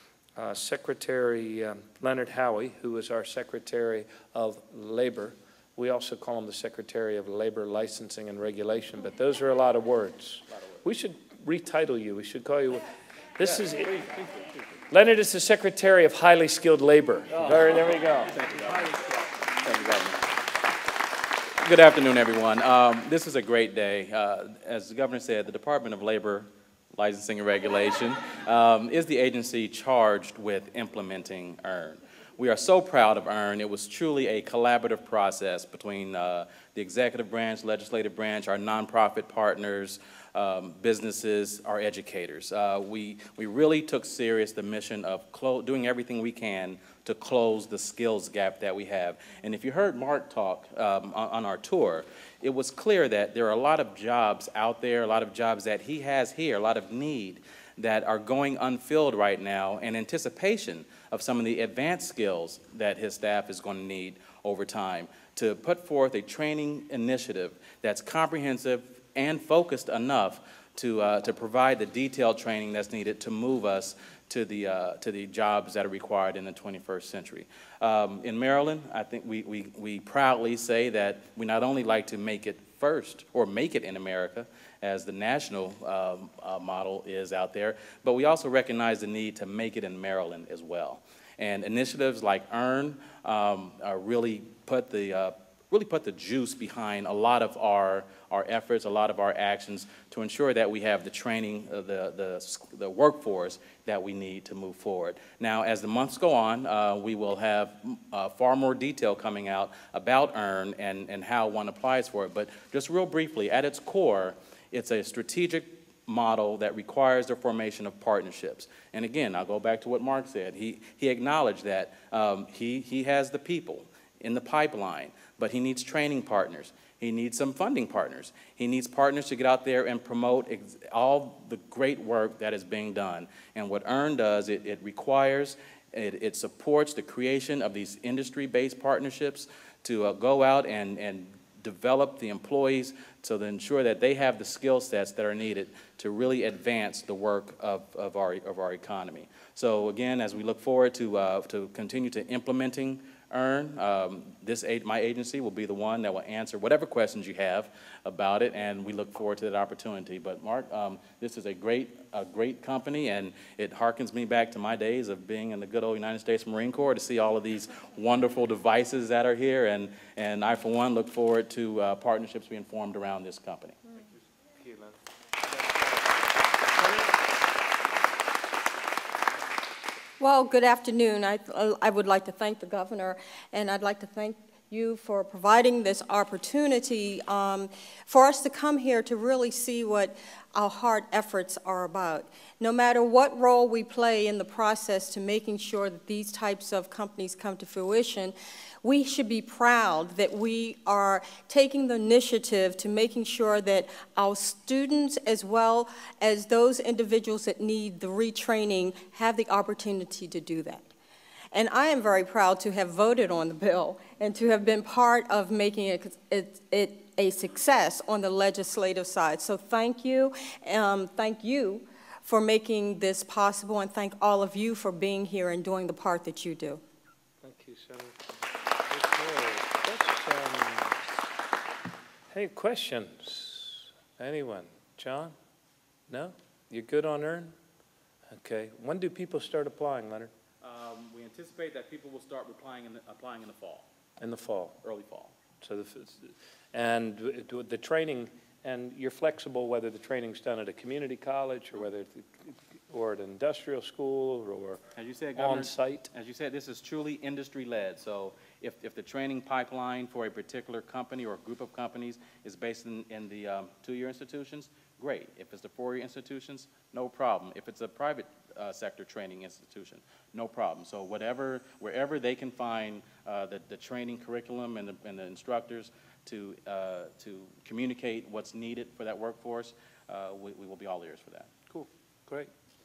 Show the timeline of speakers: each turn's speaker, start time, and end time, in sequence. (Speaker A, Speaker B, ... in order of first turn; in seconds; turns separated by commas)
Speaker A: 0.4-12.8, Speaker A: 13.4-13.9, Speaker A: 14.9-18.4, Speaker B: 18.4-18.9, Speaker B: 19.6-20.2, Speaker B: 21.6-173.8, Speaker A: 174.6-176.0, Speaker C: 180.2-210.8, Speaker C: 211.5-226.8, Speaker A: 227.4-228.3, Speaker A: 228.9-231.0, Speaker A: 232.3-235.3, Speaker A: 236.1-237.5, Speaker A: 238.3-240.3, Speaker B: 240.6-243.9, Speaker A: 244.2-244.8, Speaker B: 244.8-245.3, Speaker A: 245.6-254.8, Speaker B: 254.9-281.5, Speaker A: 255.3-256.1, Speaker A: 281.7-282.5